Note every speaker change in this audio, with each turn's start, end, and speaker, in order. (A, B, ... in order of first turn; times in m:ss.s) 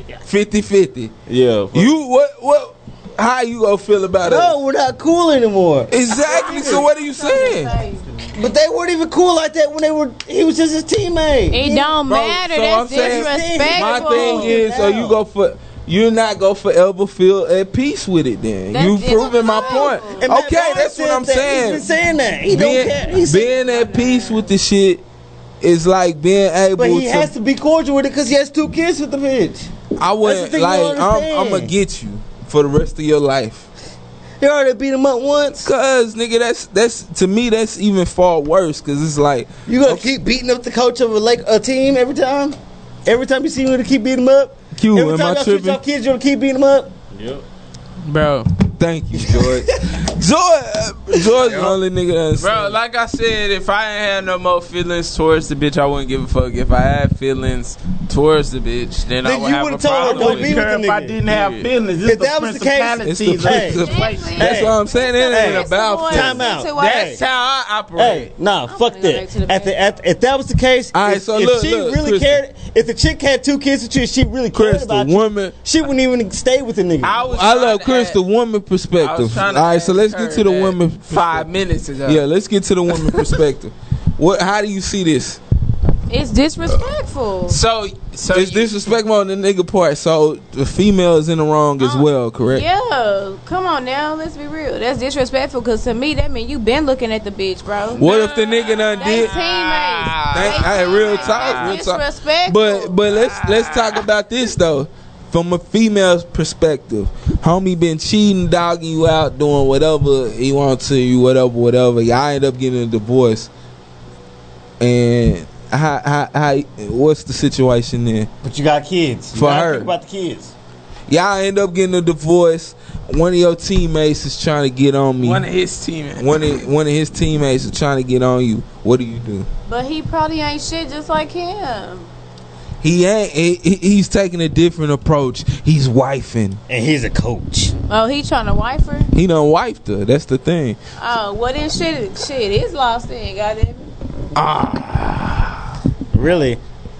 0:00.3-0:01.1 A
0:01.3-0:01.9 B
0:01.7-0:04.6 A
0:04.2-0:06.9 C
0:05.9-0:07.7 A
0:06.1-0:08.0 D
0:08.3-0:12.0 C
0:11.5-0:14.6 D
0:12.1-0:21.8 A
0:12.9-0:15.2 C
0:18.7-0:20.2 D
0:20.1-0:23.6 C
0:22.5-0:25.0 A
0:23.3-0:24.5 D
0:25.6-0:27.3 A
0:26.8-0:29.7 C
0:30.0-0:33.7 A
0:30.2-0:31.7 C
0:34.4-0:35.7 C
0:35.6-0:40.1 A
0:39.7-0:46.9 C
0:44.8-0:45.8 A
0:47.1-0:47.4 B
0:48.0-0:48.5 E
0:48.8-0:52.6 A
0:49.1-0:49.6 C
0:51.2-0:51.8 C
0:52.4-1:00.7 E
0:59.2-1:01.2 C
1:00.0-1:04.4 B
1:01.3-1:01.7 E
1:02.0-1:03.8 C
1:03.0-1:06.5 A
1:03.8-1:07.2 D
1:04.4-1:07.2 C
1:06.7-1:08.3 E
1:07.9-1:17.2 C
1:08.6-1:09.9 D
1:10.9-1:12.4 A
1:14.5-1:15.5 A
1:17.0-1:18.2 E
1:17.3-1:21.5 A
1:19.0-1:22.2 E
1:22.0-1:25.4 A
1:26.1-1:27.6 D
1:27.5-1:28.7 E
1:28.3-1:32.6 A
1:31.8-1:38.0 D
1:37.9-1:39.4 A
1:38.0-1:41.8 E
1:39.0-1:43.1 D
1:40.3-1:53.5 A
1:43.1-1:43.9 E
1:54.8-1:58.3 A
1:58.4-2:00.5 C
1:59.3-1:59.9 A
2:01.1-2:05.4 A
2:05.2-2:06.3 E
2:06.2-2:09.5 A
2:09.6-2:12.1 D
2:12.8-2:16.6 A
2:16.7-2:17.7 C
2:17.9-2:19.1 D
2:19.1-2:20.8 A
2:21.0-2:23.9 D
2:24.4-2:25.5 A
2:26.1-2:26.6 C